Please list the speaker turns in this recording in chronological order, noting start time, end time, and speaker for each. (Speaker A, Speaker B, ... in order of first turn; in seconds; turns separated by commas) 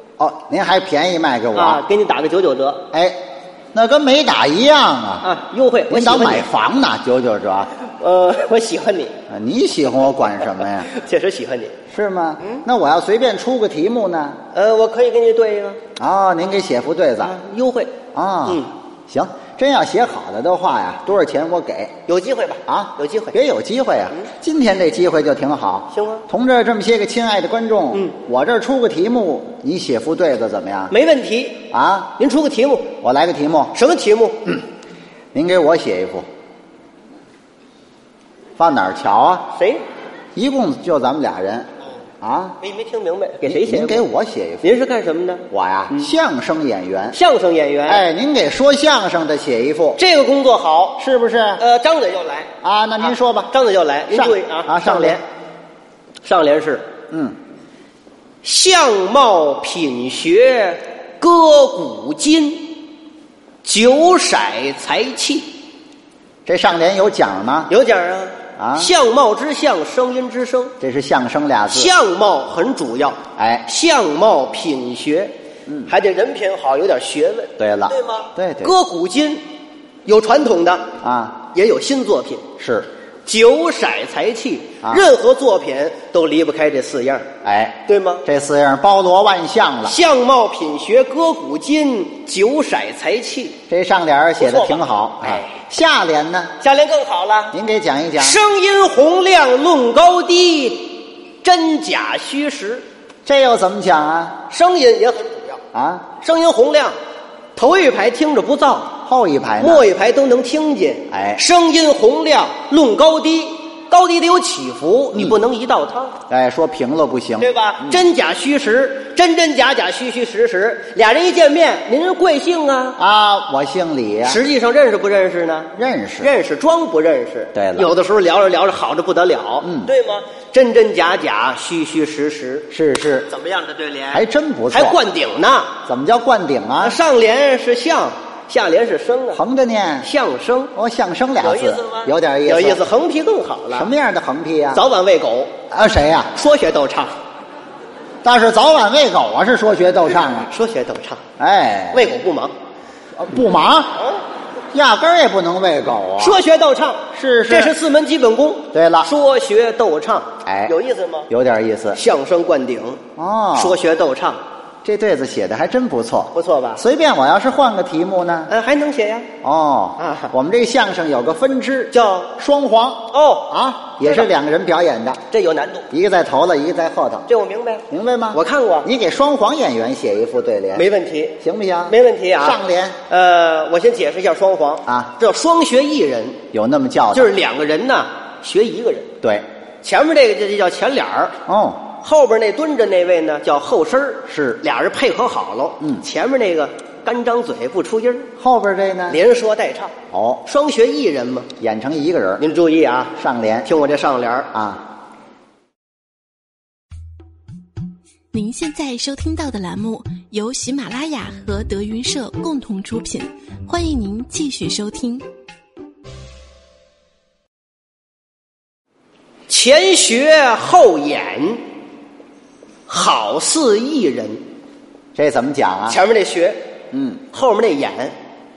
Speaker A: 0.2-1.8, Speaker B: 1.5-2.9, Speaker A: 2.9-3.2, Speaker A: 3.7-5.3, Speaker B: 5.2-6.5, Speaker A: 5.9-7.7, Speaker B: 8.0-9.1, Speaker A: 9.3-10.9, Speaker B: 10.6-11.8, Speaker A: 11.9-14.4, Speaker B: 14.5-15.8, Speaker A: 16.0-17.4, Speaker B: 17.2-17.9, Speaker A: 18.1-21.9, Speaker B: 18.4-18.7, Speaker B: 22.1-23.4, Speaker A: 22.7-30.9, Speaker B: 25.9-26.2, Speaker B: 30.9-31.6, Speaker A: 31.7-32.1, Speaker B: 32.2-32.9, Speaker A: 33.0-33.8, Speaker B: 33.7-34.6, Speaker A: 35.3-36.3, Speaker A: 38.6-39.5, Speaker B: 39.5-39.8, Speaker A: 40.4-41.7, Speaker A: 42.2-42.6, Speaker B: 42.6-44.1, Speaker A: 43.5-44.7, Speaker B: 44.6-46.1, Speaker A: 45.5-47.2, Speaker B: 47.1-48.0, Speaker A: 47.9-50.0, Speaker B: 50.0-51.0, Speaker A: 51.0-51.6, Speaker B: 51.6-52.5, Speaker A: 52.6-53.5, Speaker B: 53.5-55.2, Speaker A: 54.1-55.2, Speaker B: 56.2-56.9, Speaker A: 57.1-57.4, Speaker B: 58.4-62.8, Speaker B: 63.6-65.5, Speaker A: 66.5-67.7, Speaker B: 67.7-70.7, Speaker A: 68.6-68.9, Speaker A: 70.8-71.9, Speaker B: 71.7-75.3, Speaker A: 73.4-73.7, Speaker B: 75.9-79.4, Speaker A: 77.6-78.7, Speaker B: 80.1-82.5, Speaker A: 81.0-81.4, Speaker A: 82.6-82.9, Speaker B: 83.3-87.3, Speaker A: 84.8-85.1, Speaker A: 87.4-90.0, Speaker B: 87.9-88.2, Speaker B: 89.9-93.6, Speaker A: 93.7-96.5, Speaker B: 94.4-95.6, Speaker B: 96.6-97.6, Speaker A: 97.5-98.4, Speaker B: 98.2-102.8, Speaker A: 103.3-104.4, Speaker B: 104.5-105.6, Speaker A: 105.7-106.1, Speaker B: 106.1-107.0, Speaker B: 107.6-109.0, Speaker A: 109.0-109.9, Speaker B: 109.6-116.2, Speaker A: 111.1-111.4, Speaker A: 115.1-115.4, Speaker A: 116.3-118.0, Speaker B: 117.4-123.0, Speaker A: 123.0-124.4, Speaker B: 124.2-132.7, Speaker A: 125.8-126.3, Speaker A: 127.5-127.9, Speaker A: 129.6-129.9, Speaker A: 132.7-133.3, Speaker B: 133.3-135.7, Speaker A: 134.1-135.0, Speaker A: 135.9-137.0, Speaker B: 136.8-139.4, Speaker A: 139.3-140.1, Speaker B: 140.0-140.7, Speaker A: 140.8-142.9, Speaker B: 141.4-143.9, Speaker A: 143.7-144.8, Speaker B: 144.7-145.5, Speaker A: 145.7-146.3, Speaker B: 146.3-147.1, Speaker A: 148.2-150.5, Speaker B: 150.5-151.2, Speaker A: 151.4-152.2, Speaker B: 151.9-152.5, Speaker A: 153.2-153.9, Speaker A: 154.7-156.4, Speaker B: 156.2-161.3, Speaker A: 157.1-157.8, Speaker A: 158.7-159.1, Speaker A: 160.4-160.7, Speaker A: 161.3-162.0, Speaker B: 161.9-163.0, Speaker A: 163.2-163.8, Speaker B: 163.6-164.4, Speaker A: 164.8-168.5, Speaker B: 166.3-166.8, Speaker B: 168.5-169.3, Speaker A: 169.4-175.2, Speaker B: 170.0-170.3, Speaker B: 171.9-172.3, Speaker B: 173.1-173.5, Speaker B: 175.3-175.9, Speaker A: 175.9-177.3, Speaker B: 177.3-178.9, Speaker A: 177.9-180.9, Speaker B: 180.8-186.4, Speaker A: 181.4-183.0, Speaker A: 186.5-187.3, Speaker B: 187.1-189.1, Speaker B: 189.8-191.4, Speaker A: 191.5-191.8, Speaker B: 192.0-198.3, Speaker A: 194.3-194.6, Speaker A: 198.4-199.2, Speaker B: 199.1-201.5, Speaker A: 200.1-200.4, Speaker A: 201.6-202.4, Speaker B: 202.4-204.5, Speaker A: 203.2-203.7, Speaker A: 204.5-204.8, Speaker C: 208.3-215.2, Speaker B: 219.5-221.6, Speaker B: 222.9-224.4, Speaker A: 225.2-226.0, Speaker B: 225.9-226.6, Speaker A: 226.9-227.2, Speaker B: 227.3-228.2